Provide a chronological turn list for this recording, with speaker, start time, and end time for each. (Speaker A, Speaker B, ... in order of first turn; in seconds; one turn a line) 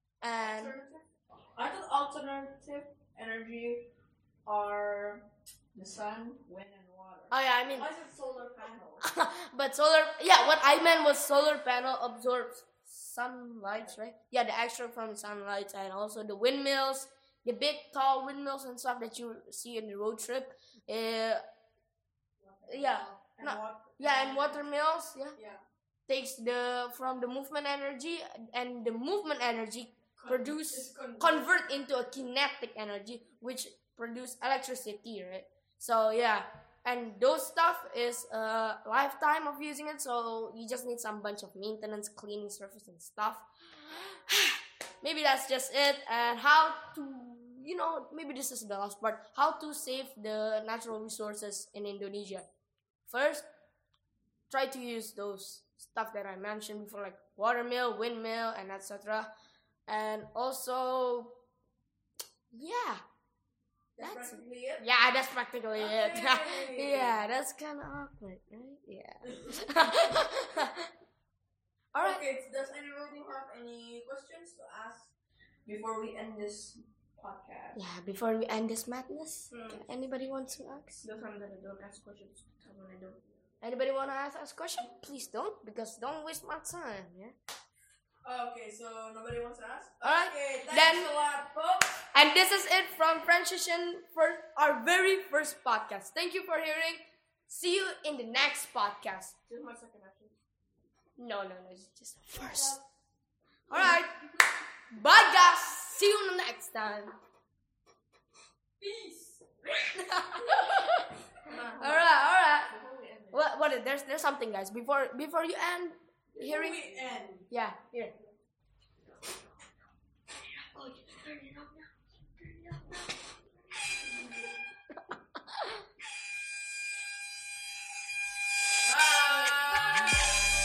Speaker A: 0.2-0.8
Speaker B: 0.4-3.9
Speaker B: 4.5-9.1
Speaker A: 7.3-7.9
Speaker A: 9.0-21.4
Speaker B: 13.7-13.9
Speaker B: 22.4-24.6
Speaker A: 22.7-25.4
Speaker B: 25.4-25.6
Speaker A: 26.1-52.5
Speaker B: 30.2-31.5
Speaker A: 53.1-53.5
Speaker A: 54.5-59.3
Speaker A: 59.9-61.4
Speaker A: 62.5-63.0
Speaker B: 64.0-64.9
Speaker A: 64.0-70.9
Speaker B: 65.8-67.2
Speaker B: 69.2-70.1
Speaker A: 71.9-72.2
Speaker B: 72.0-75.1
Speaker B: 75.7-77.8
Speaker A: 77.7-81.0
Speaker C: 79.5-79.8
Speaker C: 81.0-83.2
Speaker A: 83.6-87.3
Speaker B: 88.2-92.1
Speaker A: 90.0-91.1
Speaker A: 92.1-99.4
Speaker C: 99.5-100.3
Speaker A: 101.2-102.8
Speaker B: 102.3-102.7
Speaker A: 103.7-104.2
Speaker A: 104.9-107.2
Speaker B: 108.8-109.4
Speaker A: 109.9-111.1
Speaker C: 111.5-112.2
Speaker A: 111.8-112.7
Speaker C: 112.7-113.4
Speaker A: 113.3-116.9
Speaker B: 116.4-117.5
Speaker A: 117.5-118.1
Speaker A: 120.8-121.4
Speaker B: 128.8-130.3
Speaker A: 129.5-130.3